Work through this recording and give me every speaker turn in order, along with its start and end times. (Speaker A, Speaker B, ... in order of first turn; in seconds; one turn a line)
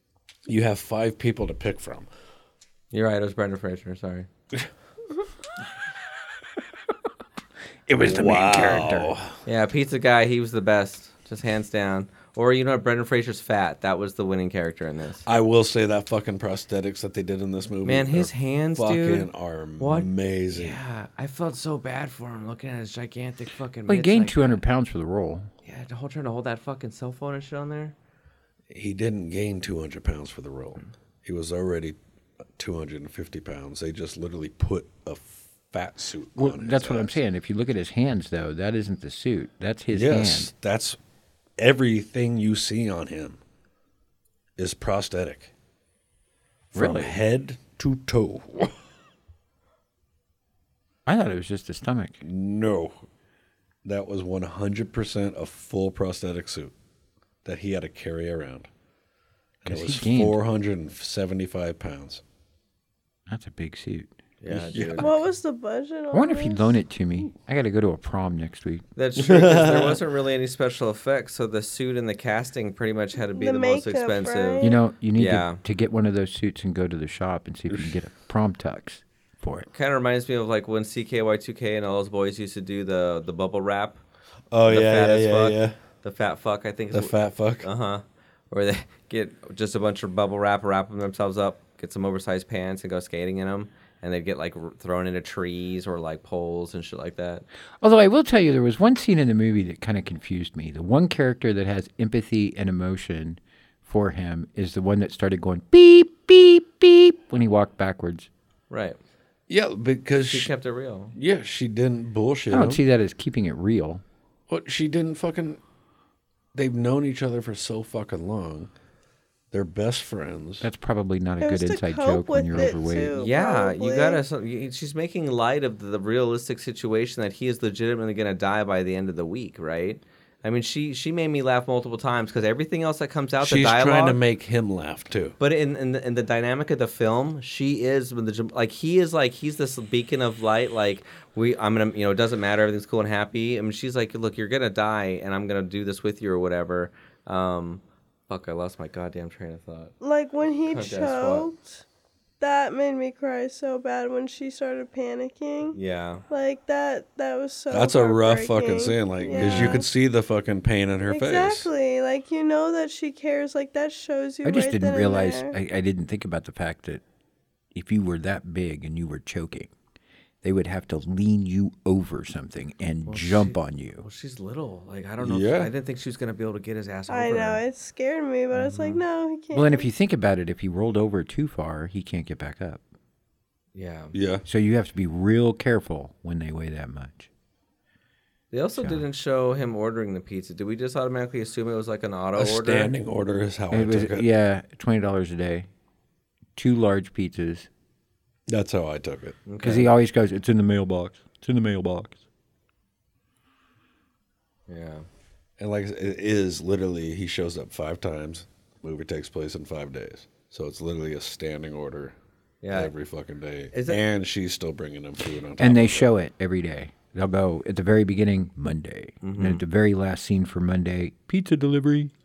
Speaker A: 0.5-2.1
Speaker B: 2.9-4.3
Speaker C: 7.9-9.1
Speaker A: 8.0-9.3
Speaker B: 9.4-15.2
Speaker A: 15.2-20.8
Speaker B: 17.8-24.6
Speaker C: 23.9-25.5
Speaker B: 25.6-27.9
Speaker A: 28.7-32.0
Speaker A: 32.6-37.2
Speaker C: 36.4-40.5
Speaker A: 39.9-41.0
Speaker A: 41.6-43.4
Speaker A: 44.6-45.5
Speaker A: 46.7-48.8
Speaker C: 46.7-47.2
Speaker C: 51.0-52.2
Speaker A: 52.2-53.0
Speaker A: 53.8-56.7
Speaker A: 57.4-58.7
Speaker A: 59.6-62.2
Speaker C: 59.6-60.4
Speaker C: 63.3-64.1
Speaker B: 64.4-65.1
Speaker A: 64.5-65.1
Speaker D: 65.0-66.7
Speaker C: 66.1-68.8
Speaker B: 69.0-75.6
Speaker A: 69.2-70.0
Speaker D: 73.3-74.8
Speaker C: 74.6-79.7
Speaker B: 79.7-84.0
Speaker A: 84.5-85.8
Speaker B: 84.6-97.4
Speaker A: 86.9-87.7
Speaker C: 97.8-108.3
Speaker B: 108.7-109.0
Speaker A: 109.5-110.5
Speaker B: 110.3-111.1
Speaker A: 111.1-112.8
Speaker C: 112.5-114.0
Speaker A: 114.5-115.6
Speaker A: 116.5-118.7
Speaker A: 119.5-120.7
Speaker C: 120.6-123.1
Speaker D: 121.4-124.2
Speaker B: 123.2-134.2
Speaker A: 133.4-135.3
Speaker B: 135.4-149.9
Speaker D: 150.0-151.8
Speaker B: 150.7-151.5
Speaker D: 152.4-155.8
Speaker B: 155.7-156.2
Speaker D: 156.3-159.9
Speaker A: 157.7-161.7
Speaker B: 159.3-159.8
Speaker D: 161.1-165.5
Speaker C: 164.4-167.0
Speaker C: 167.7-169.7
Speaker C: 170.4-174.0
Speaker B: 173.1-177.6
Speaker A: 175.2-175.7
Speaker D: 177.1-179.9
Speaker B: 178.5-179.0
Speaker C: 179.5-182.8
Speaker B: 183.7-184.1
Speaker A: 184.1-184.4
Speaker C: 184.5-187.3
Speaker B: 188.5-192.9
Speaker C: 188.8-189.0
Speaker A: 192.4-194.3
Speaker C: 193.7-195.7
Speaker C: 196.6-197.7
Speaker A: 198.5-199.4
Speaker B: 199.5-199.9
Speaker C: 199.6-202.2
Speaker B: 204.7-205.0
Speaker A: 205.6-212.2
Speaker B: 212.6-212.9
Speaker A: 212.7-216.1
Speaker B: 213.7-214.0
Speaker C: 215.6-222.1
Speaker B: 219.2-219.6